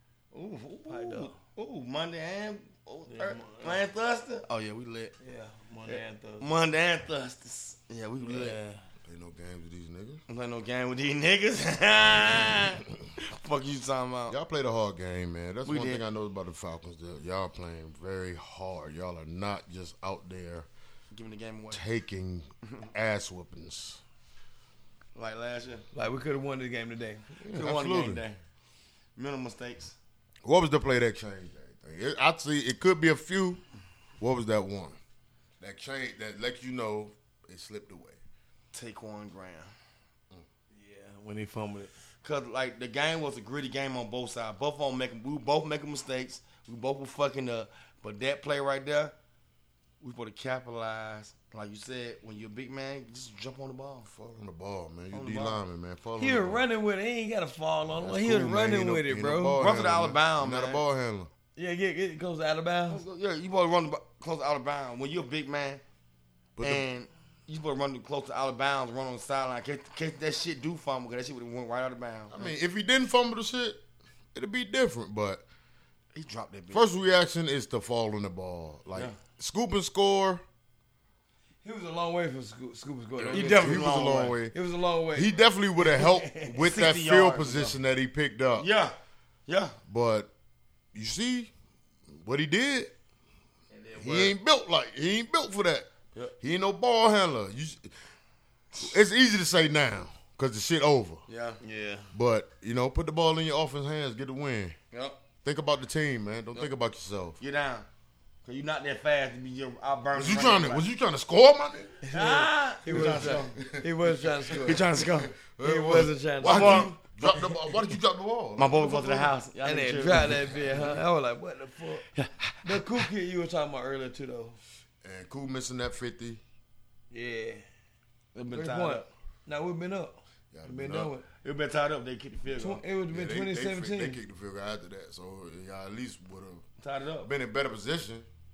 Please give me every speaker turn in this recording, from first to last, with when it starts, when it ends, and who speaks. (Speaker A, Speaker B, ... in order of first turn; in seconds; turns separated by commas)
Speaker A: 0.3-5.1, Speaker B: 0.9-1.4, Speaker B: 3.1-3.9, Speaker B: 5.2-6.5, Speaker A: 5.9-8.6, Speaker B: 8.2-8.8, Speaker C: 9.1-10.2, Speaker A: 10.3-14.4, Speaker C: 12.4-12.7, Speaker C: 14.3-20.7, Speaker A: 15.7-16.0, Speaker A: 21.1-21.8, Speaker C: 21.7-24.0, Speaker A: 25.1-25.9, Speaker B: 25.9-27.3, Speaker C: 27.4-28.2, Speaker A: 27.5-28.4, Speaker A: 29.2-30.0, Speaker C: 30.4-33.6, Speaker C: 34.2-35.0, Speaker C: 35.6-38.2, Speaker A: 38.7-39.7, Speaker B: 40.7-41.9, Speaker A: 42.2-49.1, Speaker A: 50.0-54.1, Speaker C: 54.1-56.6, Speaker A: 55.1-55.6, Speaker B: 56.2-59.6, Speaker C: 57.9-61.3, Speaker A: 59.6-60.8, Speaker B: 61.6-63.0, Speaker A: 62.9-65.8, Speaker C: 66.6-66.9, Speaker A: 66.6-72.5, Speaker C: 72.3-73.8, Speaker C: 74.3-75.5, Speaker A: 76.2-76.8, Speaker C: 76.7-80.4, Speaker B: 81.6-83.9, Speaker C: 83.2-84.5, Speaker A: 83.3-84.4, Speaker B: 84.5-86.7, Speaker C: 85.1-88.7, Speaker A: 86.6-87.8, Speaker A: 88.6-88.9, Speaker A: 89.5-89.8, Speaker C: 89.9-90.3, Speaker C: 90.9-91.5, Speaker C: 92.1-92.9, Speaker A: 93.8-94.3, Speaker B: 93.9-94.3, Speaker C: 94.0-95.9, Speaker C: 96.4-98.0, Speaker C: 98.8-101.2, Speaker A: 101.3-101.6, Speaker B: 101.6-102.1, Speaker C: 102.1-104.8, Speaker A: 104.9-105.2, Speaker C: 105.4-107.4, Speaker A: 107.4-107.9, Speaker A: 108.5-110.9, Speaker C: 110.1-112.0, Speaker B: 112.0-114.9, Speaker A: 112.1-113.6, Speaker C: 112.9-119.3, Speaker A: 114.6-115.3, Speaker B: 115.6-117.4, Speaker A: 116.4-116.9, Speaker A: 118.6-121.0, Speaker B: 119.6-122.1, Speaker C: 120.2-121.0, Speaker A: 122.1-123.1, Speaker B: 122.6-124.6, Speaker C: 125.0-126.4, Speaker B: 127.1-127.6, Speaker A: 128.3-129.1, Speaker B: 128.5-131.3, Speaker C: 130.5-131.1, Speaker A: 131.4-132.8, Speaker B: 132.6-134.2, Speaker C: 133.1-136.6, Speaker A: 136.8-137.3, Speaker C: 137.2-138.3